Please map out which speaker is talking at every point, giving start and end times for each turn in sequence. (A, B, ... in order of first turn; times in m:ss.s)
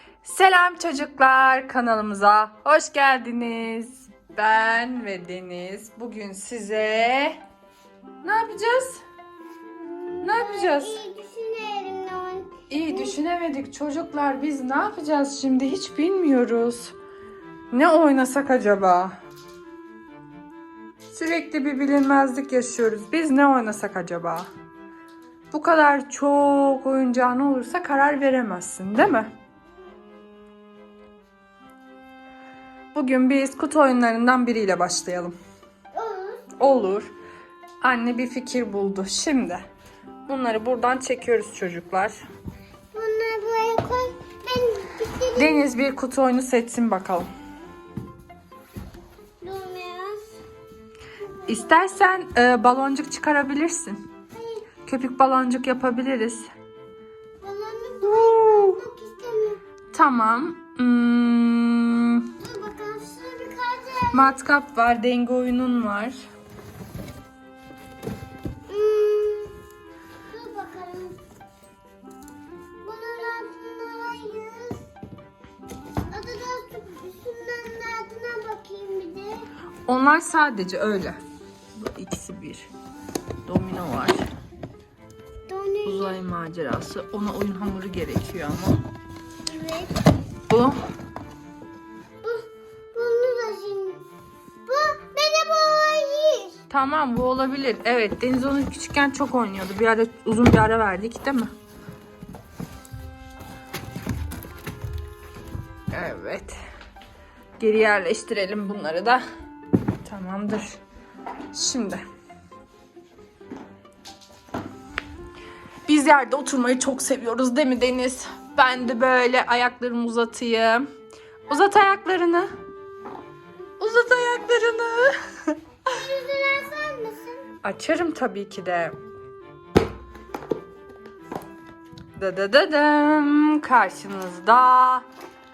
0:00.2-0:07.4 A
0:08.2-0:09.0 A
0:09.8-0:13.2 B
0:10.2-0:11.0 A
0:12.7-0:17.0 A
0:17.7-0:19.2 A
0:21.1-0:24.5 A
0:25.5-0:29.3 A
0:32.9-0:35.4 A
0:35.9-0:36.5 B
0:36.6-0:37.1 A
0:37.8-0:39.6 A
0:40.3-0:42.2 A
0:42.9-0:45.7 B
0:45.4-0:47.3 A
0:49.4-0:50.4 B
0:51.2-0:51.8 B
0:51.5-0:54.0 A
0:54.3-0:54.7 B
0:54.9-0:56.5 A
0:57.4-0:59.6 B
0:58.0-0:58.8 A
0:59.9-1:02.3 A
1:02.4-1:04.4 B
1:04.1-1:06.2 A
1:08.7-1:09.6 B
1:10.3-1:11.2 B
1:12.8-1:14.8 B
1:16.1-1:19.5 B
1:19.9-1:21.2 A
1:21.8-1:22.7 A
1:23.4-1:24.3 A
1:25.5-1:26.2 B
1:25.9-1:28.8 A
1:29.5-1:30.0 B
1:30.5-1:30.8 A
1:32.2-1:34.0 B
1:34.7-1:36.6 B
1:36.7-1:41.5 A
1:45.9-1:46.6 A
1:47.6-1:49.2 A
1:50.0-1:50.8 A
1:51.5-1:52.0 A
1:55.9-2:00.9 A
2:01.5-2:02.5 A
2:03.8-2:05.6 A
2:05.9-2:07.4 B
2:07.6-2:09.0 A
2:12.1-2:15.0 A